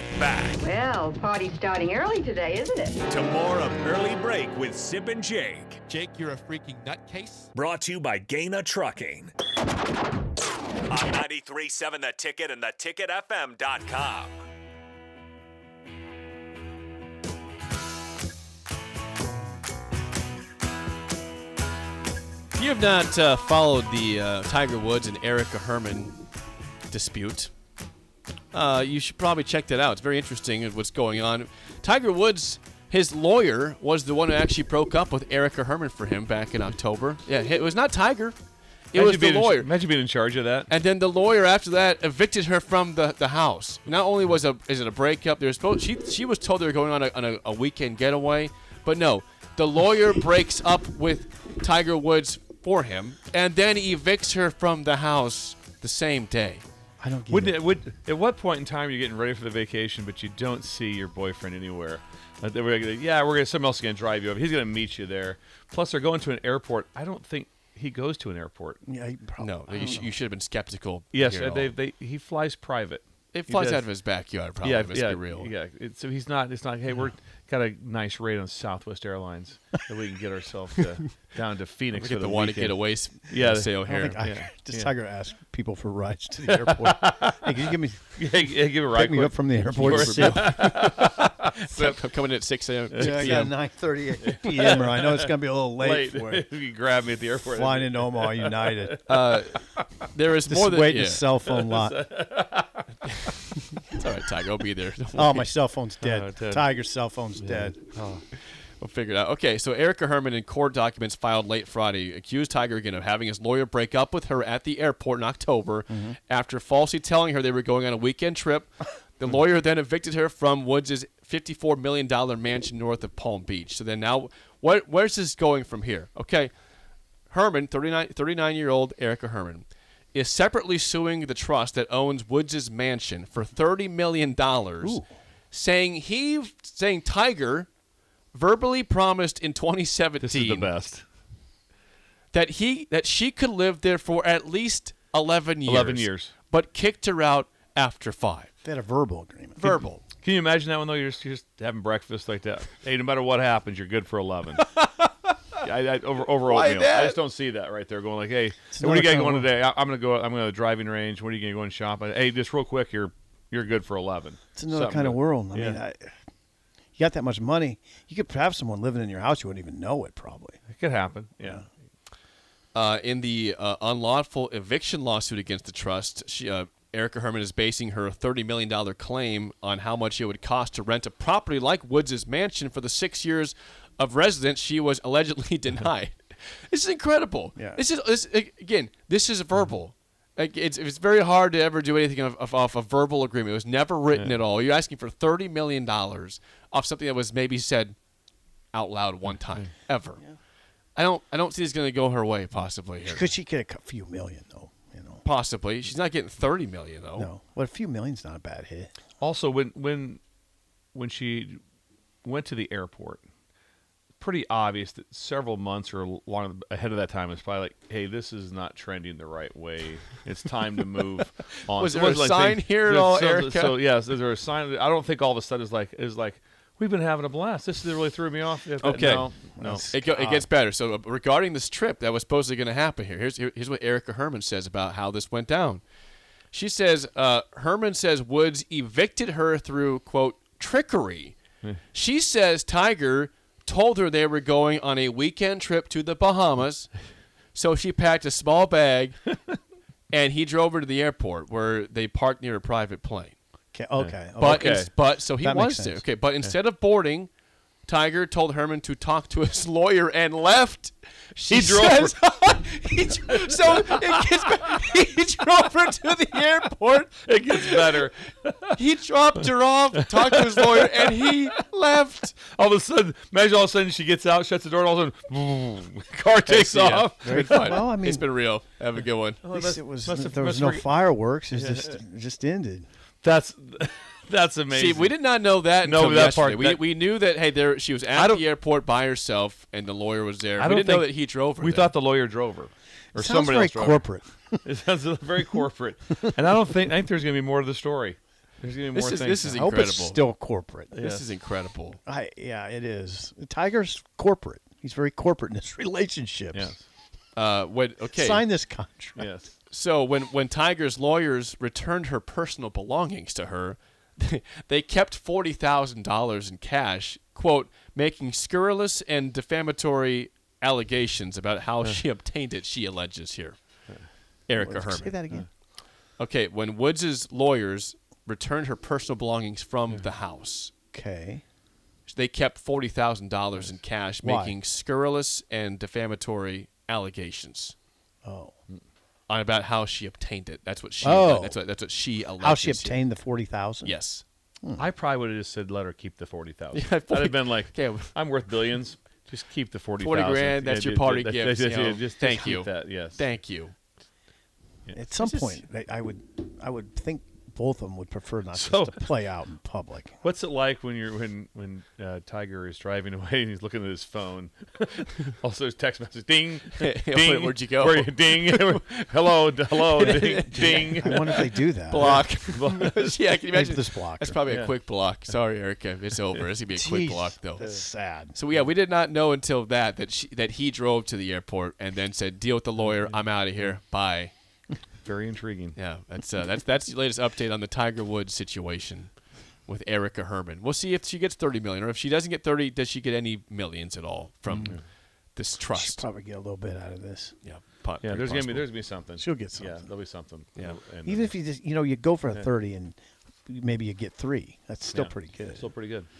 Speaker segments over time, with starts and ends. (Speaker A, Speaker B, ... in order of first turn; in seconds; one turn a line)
Speaker A: 0.1-0.7
Speaker B: 0.6-3.0
Speaker A: 3.1-5.8
Speaker C: 5.9-7.5
Speaker A: 7.5-9.3
Speaker A: 10.9-14.3
Speaker C: 22.5-26.2
Speaker C: 26.9-27.5
Speaker C: 28.5-38.4
Speaker C: 38.9-39.7
Speaker D: 38.9-40.7
Speaker C: 40.7-56.6
Speaker E: 57.0-57.6
Speaker D: 57.3-68.8
Speaker E: 68.8-70.1
Speaker C: 69.4-71.7
Speaker D: 71.1-73.8
Speaker C: 73.3-75.5
Speaker D: 74.6-84.9
Speaker C: 82.0-84.2
Speaker E: 83.6-90.7
Speaker D: 86.5-87.4
Speaker D: 88.1-92.0
Speaker C: 89.7-91.1
Speaker C: 91.7-93.5
Speaker D: 92.9-93.5
Speaker E: 93.0-96.5
Speaker D: 94.2-99.9
Speaker E: 97.4-99.0
Speaker C: 99.1-101.2
Speaker E: 100.5-102.0
Speaker D: 101.5-103.3
Speaker C: 103.1-105.5
Speaker E: 105.2-107.8
Speaker D: 106.0-106.7
Speaker D: 107.4-108.2
Speaker C: 108.8-126.5
Speaker E: 115.9-116.2
Speaker C: 127.3-137.7
Speaker C: 138.3-140.7
Speaker D: 140.2-141.0
Speaker C: 142.3-148.5
Speaker D: 145.6-146.3
Speaker E: 148.6-149.8
Speaker C: 149.6-150.0
Speaker D: 150.2-154.6
Speaker C: 154.6-155.1
Speaker D: 155.6-165.8
Speaker C: 156.4-157.2
Speaker E: 158.7-159.5
Speaker E: 164.5-166.1
Speaker E: 167.0-170.6
Speaker D: 170.7-171.7
Speaker C: 172.7-197.9
Speaker E: 187.6-187.8
Speaker C: 198.7-200.2
Speaker C: 200.9-203.3
Speaker E: 203.0-205.2
Speaker C: 205.2-207.3
Speaker E: 207.2-208.9
Speaker D: 209.2-210.2
Speaker D: 210.9-211.6
Speaker D: 212.2-213.2
Speaker D: 214.2-229.9
Speaker C: 221.7-223.8
Speaker C: 228.8-235.8
Speaker E: 229.6-230.5
Speaker C: 236.5-241.3
Speaker C: 241.9-246.9
Speaker C: 247.5-249.2
Speaker C: 250.1-253.3
Speaker E: 253.7-256.0
Speaker D: 254.0-254.9
Speaker C: 254.4-257.3
Speaker C: 257.9-268.0
Speaker D: 261.5-262.1
Speaker D: 267.2-268.8
Speaker C: 268.8-272.4
Speaker D: 270.2-271.5
Speaker D: 272.4-277.8
Speaker C: 276.4-279.4
Speaker E: 277.2-278.2
Speaker D: 279.4-280.9
Speaker E: 279.5-282.9
Speaker D: 281.5-281.9
Speaker D: 283.2-285.1
Speaker C: 284.7-291.9
Speaker D: 285.8-286.8
Speaker D: 288.1-288.4
Speaker D: 290.6-294.1
Speaker E: 293.1-294.6
Speaker D: 294.6-299.7
Speaker C: 298.9-300.2
Speaker E: 299.5-300.9
Speaker C: 300.9-302.0
Speaker D: 300.9-301.2
Speaker E: 302.1-306.7
Speaker D: 306.5-306.8
Speaker C: 307.3-308.4
Speaker E: 308.1-309.3
Speaker D: 309.2-309.5
Speaker C: 309.7-323.6
Speaker C: 324.5-325.2
Speaker E: 324.6-325.5
Speaker C: 326.2-330.7
Speaker E: 330.9-331.4
Speaker C: 332.1-337.8
Speaker E: 334.2-334.6
Speaker E: 338.2-338.5
Speaker C: 339.3-343.0
Speaker E: 341.0-341.6
Speaker E: 342.4-343.9
Speaker C: 343.8-344.2
Speaker D: 344.8-353.2
Speaker C: 346.7-348.1
Speaker C: 350.0-353.8
Speaker E: 354.9-360.2
Speaker C: 355.2-355.6
Speaker D: 358.5-359.1
Speaker D: 360.2-371.4
Speaker C: 366.8-369.1
Speaker C: 369.7-377.6
Speaker E: 370.3-372.3
Speaker D: 372.0-373.2
Speaker E: 373.5-374.4
Speaker D: 374.5-374.7
Speaker E: 376.7-378.4
Speaker C: 378.3-384.3
Speaker D: 385.0-385.8
Speaker C: 385.8-389.1
Speaker C: 389.6-394.8
Speaker E: 394.5-394.8
Speaker C: 395.3-396.0
Speaker E: 395.7-397.4
Speaker C: 397.4-398.7
Speaker D: 398.0-401.3
Speaker E: 399.2-399.9
Speaker E: 401.1-405.6
Speaker D: 404.9-406.1